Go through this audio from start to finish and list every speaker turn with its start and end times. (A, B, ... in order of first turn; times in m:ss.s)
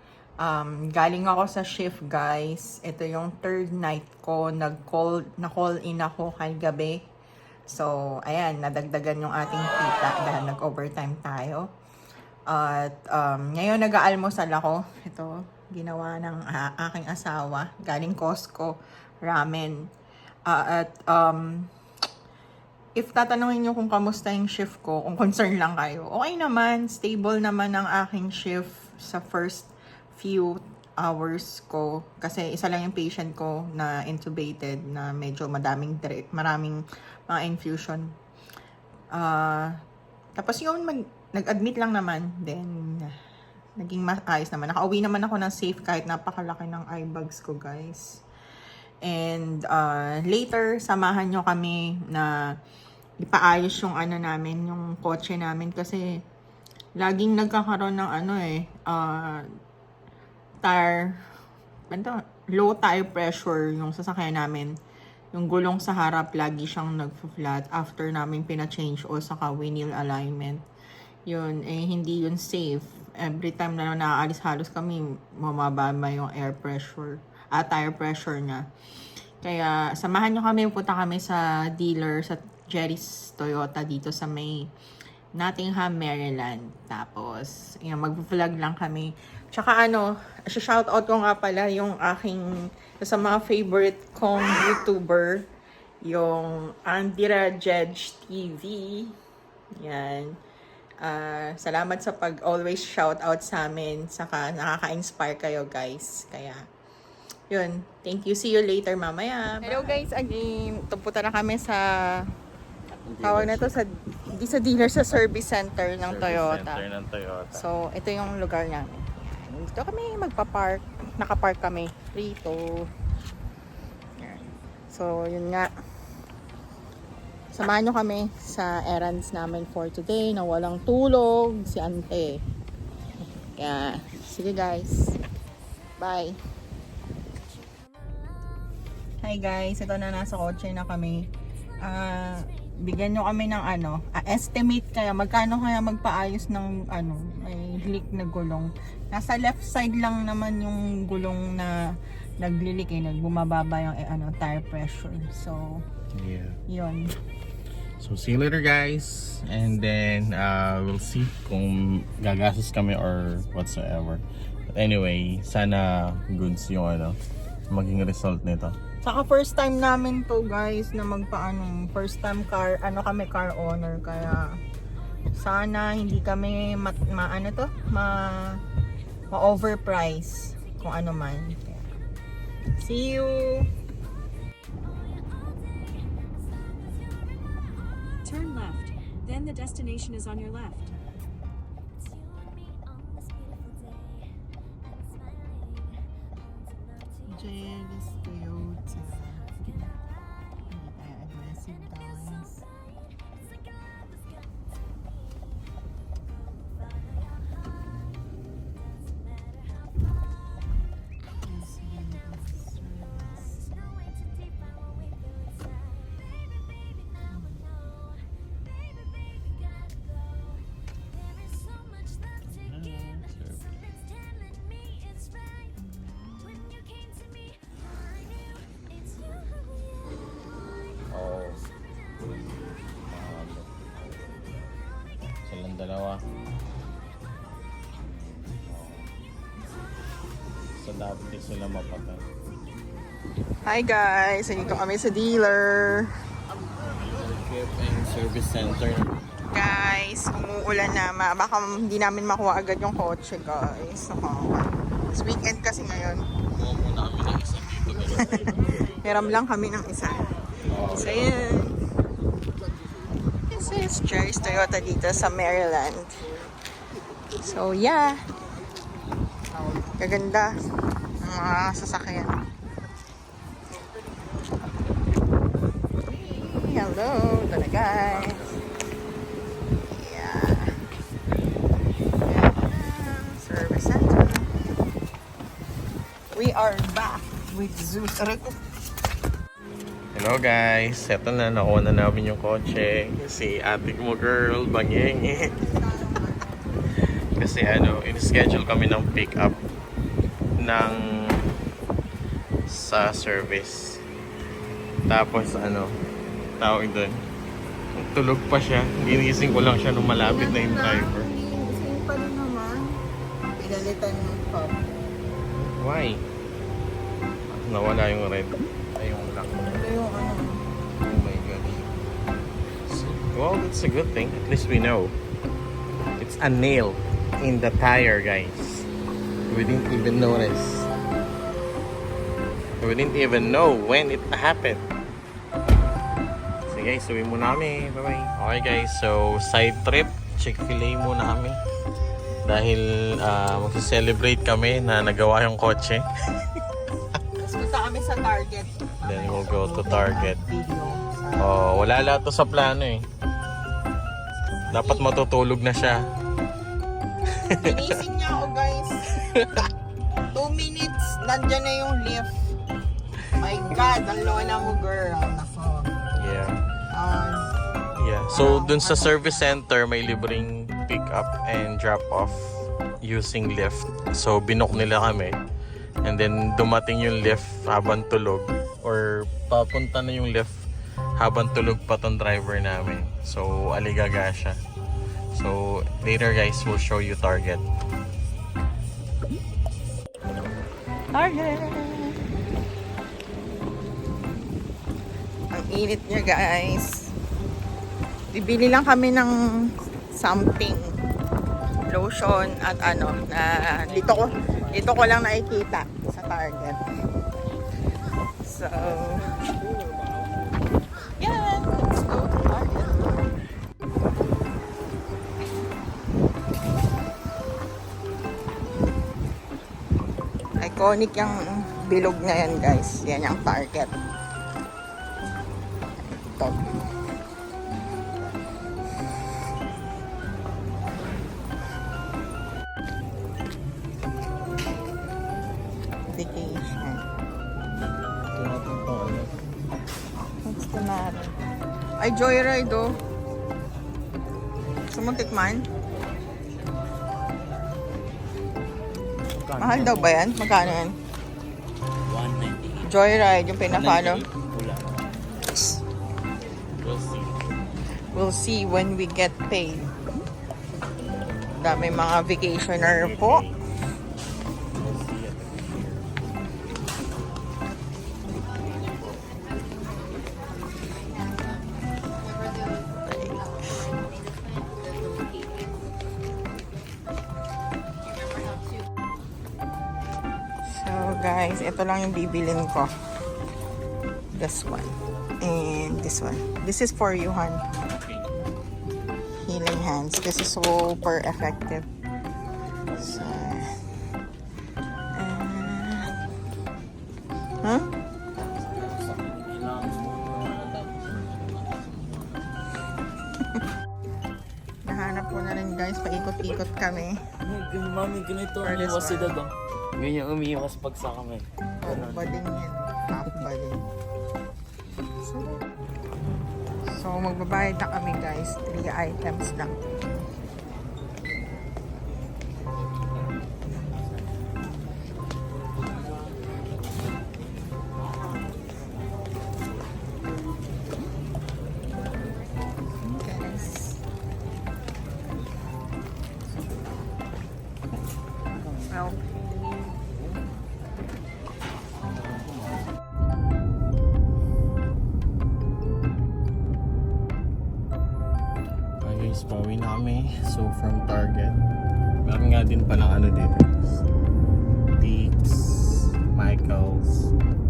0:00.4-0:07.0 A
0:07.7-0:11.7 A
0:12.5-0:19.8 A
0:20.5-0:21.7 A
0:23.0-0:38.1 A
0:39.1-0:39.7 A
0:40.4-0:43.1 A
0:43.8-0:48.2 A
0:49.0-0:52.3 A
0:53.2-0:56.0 A
0:57.0-0:59.4 A
1:00.6-1:01.1 A
1:01.9-1:04.7 A
1:05.3-1:10.6 A
1:11.3-1:18.6 A
1:19.4-1:24.6 A
1:25.4-1:32.4 A
1:33.0-1:35.4 A
1:36.0-1:39.1 A
1:39.8-1:40.4 A
1:41.0-1:46.6 A
1:47.5-1:51.8 A
1:49.6-1:50.0 B
1:53.0-1:53.7 B
1:53.2-1:56.8 A
1:56.0-1:57.6 B
1:57.5-2:02.6 A
2:04.2-2:05.7 A
2:07.5-2:12.4 A
2:13.6-2:15.2 A
2:16.0-2:16.4 A
2:19.2-2:21.3 A
2:21.8-2:31.7 A
2:32.4-2:35.8 A
2:36.1-2:36.6 B
2:36.7-2:37.1 A
2:38.0-2:47.2 B
2:47.7-2:48.8 B
2:49.0-2:54.5 A
2:55.4-2:58.6 A
2:59.3-3:01.9 A
3:02.8-3:03.7 A
3:08.2-3:10.9 C
3:17.3-3:19.5 A
3:20.7-3:22.6 A
3:31.4-3:33.7 A
3:37.3-3:37.7 A
3:42.4-3:43.6 B
3:45.8-3:46.6 A
3:51.1-3:51.6 B
3:53.1-3:54.4 B
3:55.4-3:56.2 B
3:58.7-3:59.1 B
4:00.8-4:02.3 B
4:03.6-4:06.1 A
4:07.0-4:09.1 B
4:09.5-4:16.2 A
4:16.5-4:18.6 B
4:18.3-4:20.3 A
4:20.7-4:21.4 B
4:20.9-4:21.8 A
4:23.5-4:26.2 A
4:27.4-4:28.2 A
4:30.0-4:30.5 A
4:31.2-4:32.4 A
4:36.0-4:38.4 A
4:39.9-4:40.7 A
4:42.2-4:44.5 A
4:46.3-4:48.6 A
4:50.1-4:55.5 B
4:55.5-4:56.3 A
4:57.3-4:59.6 B
5:00.6-5:01.5 B
5:02.7-5:04.0 B
5:05.1-5:06.0 B
5:06.6-5:07.2 B
5:08.0-5:11.3 B
5:10.2-5:13.0 A
5:13.6-5:14.9 A
5:15.6-5:16.2 B
5:17.5-5:19.8 B
5:19.6-5:20.6 A
5:21.0-5:21.9 B
5:22.9-5:25.2 B
5:26.2-5:28.9 B
5:29.5-5:30.9 B
5:32.8-5:34.8 B
5:36.7-5:41.6 B
5:42.4-5:46.5 B
5:47.4-5:51.6 A
5:49.0-5:50.4 B
5:51.4-5:53.1 B
5:54.7-5:55.1 A
5:54.7-5:56.1 B
5:57.3-5:58.0 B
5:57.6-5:59.1 A
5:59.1-5:59.7 B
6:00.3-6:02.5 A
6:03.4-6:05.9 A
6:06.1-6:06.6 B
6:06.9-6:07.5 A
6:07.9-6:15.4 B
6:08.3-6:09.4 A
6:16.0-6:20.5 B
6:21.2-6:24.6 B
6:25.3-6:27.6 B
6:31.1-6:32.2 A
6:35.5-6:37.1 A
6:38.3-6:40.9 A
6:41.9-6:46.8 A
6:48.4-6:49.2 A
6:51.2-6:53.2 A
7:00.6-7:03.9 A
7:06.2-7:06.6 A
7:16.1-7:17.0 A
7:18.3-7:19.4 B
7:20.4-7:21.3 A
7:22.0-7:23.0 A
7:24.9-7:25.7 A
7:29.4-7:30.1 D
7:29.6-7:31.0 A
7:32.1-7:32.9 D
7:32.8-7:34.2 A
7:33.8-7:34.9 D
7:36.8-7:37.6 B
7:38.1-7:39.9 A
7:41.6-7:43.4 A
7:42.7-7:43.6 B
7:44.8-7:46.1 B
7:52.6-7:53.8 A
8:00.7-8:02.9 A
8:04.3-8:07.6 A
8:09.4-8:11.8 A
8:13.0-8:13.5 B
8:13.0-8:13.7 A
8:15.2-8:16.1 A
8:17.6-8:17.9 A
8:18.4-8:22.4 B
8:24.8-8:27.2 A
8:27.7-8:29.3 D
8:28.6-8:29.4 A
8:30.0-8:31.4 D
8:31.8-8:33.8 A
8:35.2-8:35.6 A
8:36.9-8:39.7 A
8:53.0-8:54.0 A
8:58.9-8:59.2 A
9:09.0-9:11.6 B
9:12.2-9:14.0 B
9:14.9-9:17.3 B